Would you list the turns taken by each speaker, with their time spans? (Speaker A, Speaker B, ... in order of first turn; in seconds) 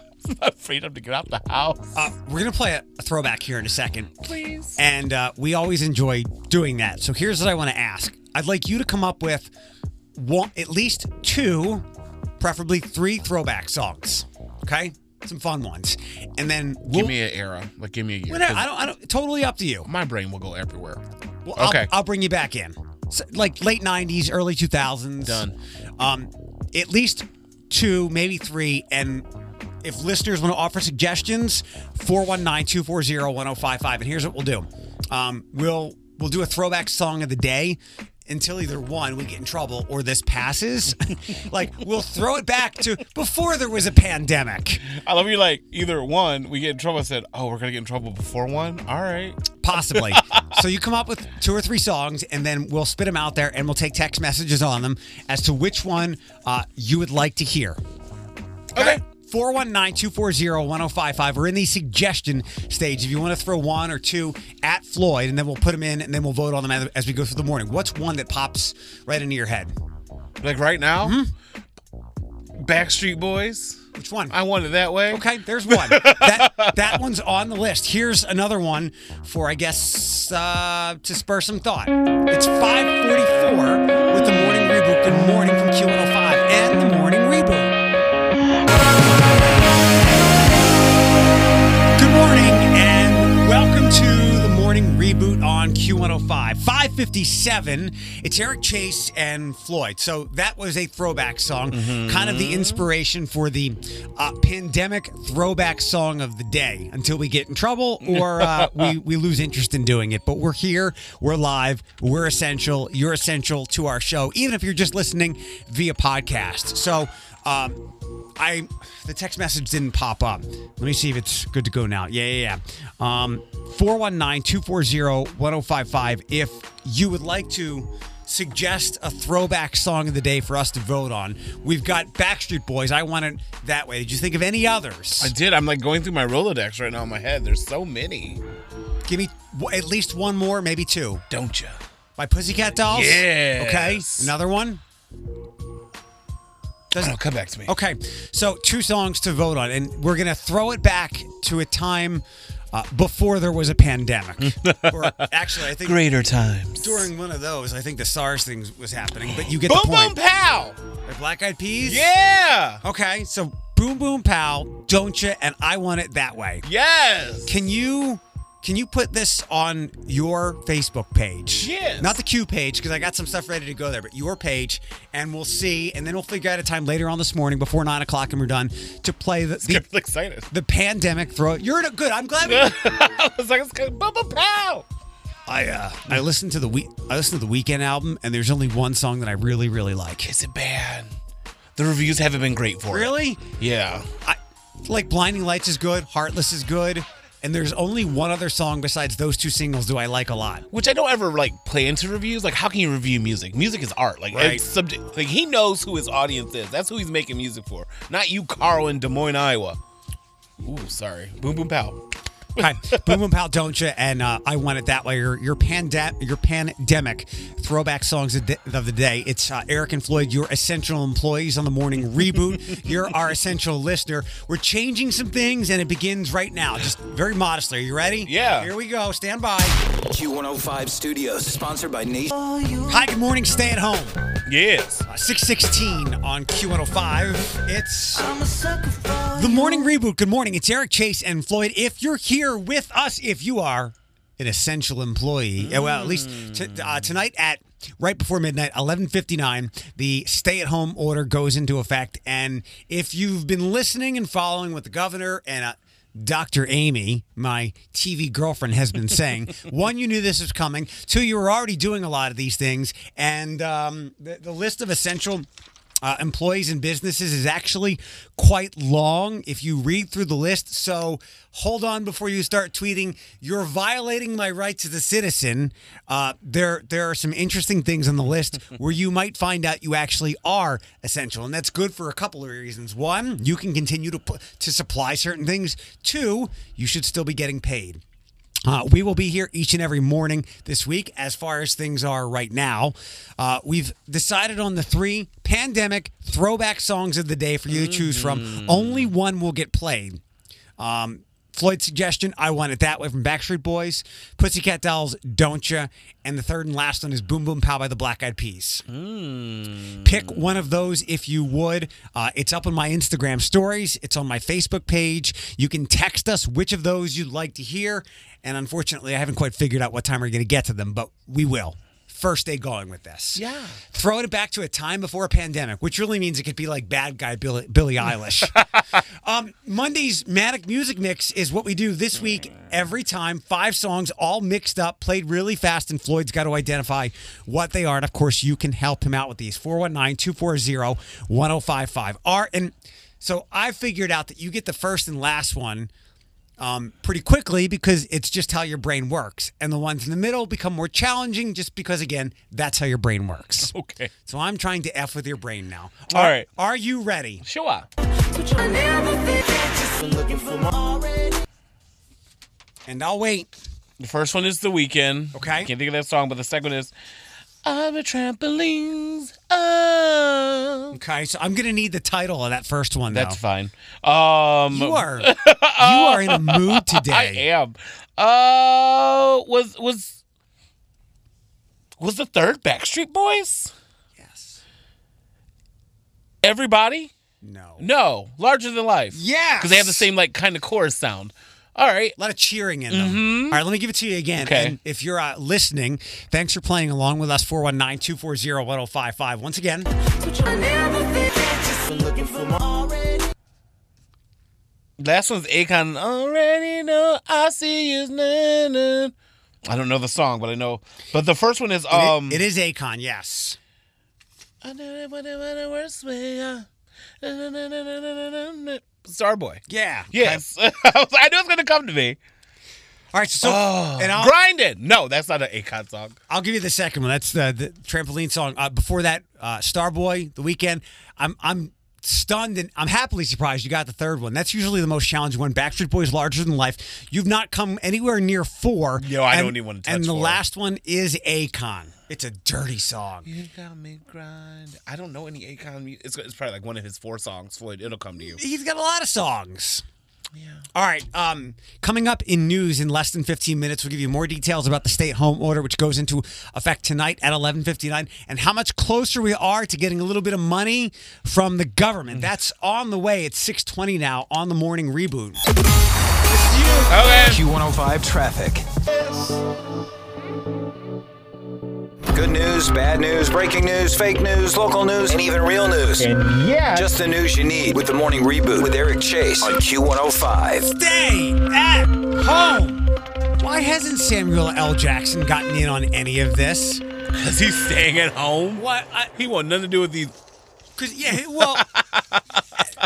Speaker A: 0.2-2.0, 4.2-4.8, 16.9-18.7, 19.9-21.0, 21.6-21.9, 25.2-25.6, 44.9-50.6, 70.4-71.2, 72.6-77.0, 101.7-102.8, 108.0-108.9, 135.2-138.4, 141.3-141.8, 142.9-144.3, 147.0-147.7, 154.4-157.1, 159.3-160.8, 161.8-162.8, 166.7-167.5, 171.6-172.2, 179.7-180.5, 182.4-184.9, 190.2-191.1, 191.8-194.1, 200.7-209.8, 210.6-212.0, 212.6-213.1, 228.2-228.7, 234.5-235.1, 245.6-247.1, 297.7-299.1, 308.9-310.4, 323.4-323.8, 353.7-354.1, 356.1-356.5, 357.4-357.9, 364.0-366.9, 367.6-370.9, 373.1-380.2, 382.0-383.7, 386.4-387.1, 387.8-392.2, 392.9-393.6, 394.4-394.8, 405.0-409.1, 409.7-412.4, 414.6-416.7, 417.2-422.2, 423.4-426.2, 439.0-440.4, 443.3-448.4, 450.4-450.6, 466.9-467.4, 476.0-476.9, 487.2-488.6, 489.1-490.1, 491.4-492.7
Speaker B: 1.9-4.1, 4.8-9.5, 10.2-11.9, 12.4-17.1, 18.3-19.9, 21.4-25.5, 26.0-29.2, 29.8-44.8, 49.6-57.8, 58.8-69.7, 71.0-71.3, 74.0-74.3, 75.1-87.8, 92.0-135.3, 139.1-141.2, 142.2-144.8, 146.9-156.0, 156.8-160.1, 161.1-162.1, 162.8-166.7, 167.4-179.8, 180.5-182.7, 185.5-190.3, 192.9-193.4, 194.2-200.7, 204.3-204.6, 212.6-229.7, 232.9-234.2, 235.1-238.3, 239.3-265.5, 266.0-288.0, 288.6-300.2, 300.8-308.9, 310.0-328.6, 329.2-345.9, 346.6-353.7, 354.3-357.4, 362.9-363.5, 365.3-365.7, 370.9-373.4, 374.7-377.4, 384.2-384.6, 387.4-387.9, 389.1-390.0, 392.2-399.9, 411.9-413.6, 419.7-420.4, 423.1-424.3, 426.3-443.3, 448.3-449.8, 450.7-465.4, 466.3-466.9, 480.6-482.9, 483.4-486.8, 488.6-489.1, 490.8-491.6
Speaker C: 230.0-232.5, 467.1-468.6, 472.1-476.2, 476.7-480.7